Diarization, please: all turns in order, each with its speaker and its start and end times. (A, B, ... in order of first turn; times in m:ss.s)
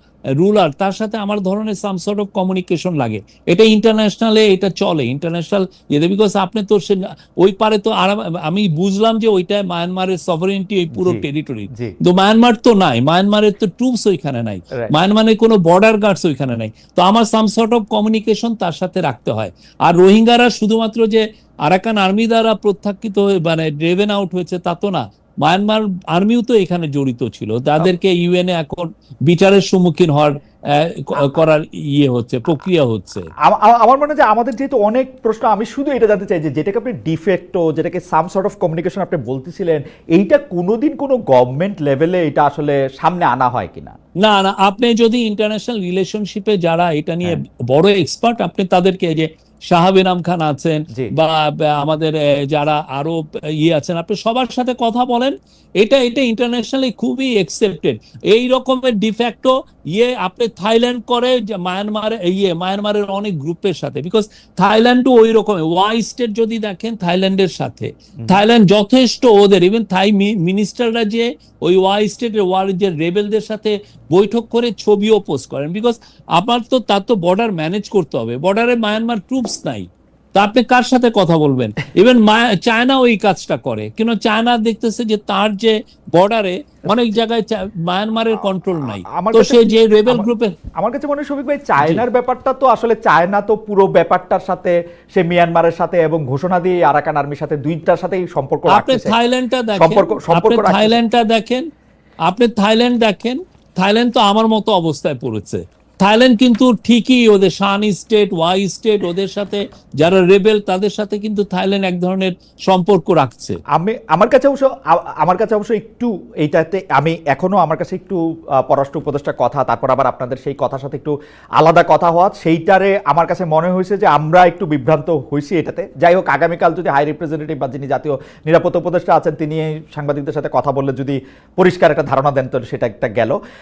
0:00.4-0:33.3 A
0:10.9-0:12.0 B
0:33.4-0:43.9 B
0:44.2-1:30.5 A
1:26.9-1:27.1 B
1:28.8-1:39.2 B
1:38.7-1:41.6 A
1:39.7-1:41.0 B
1:42.3-1:53.6 A
1:53.7-2:13.4 B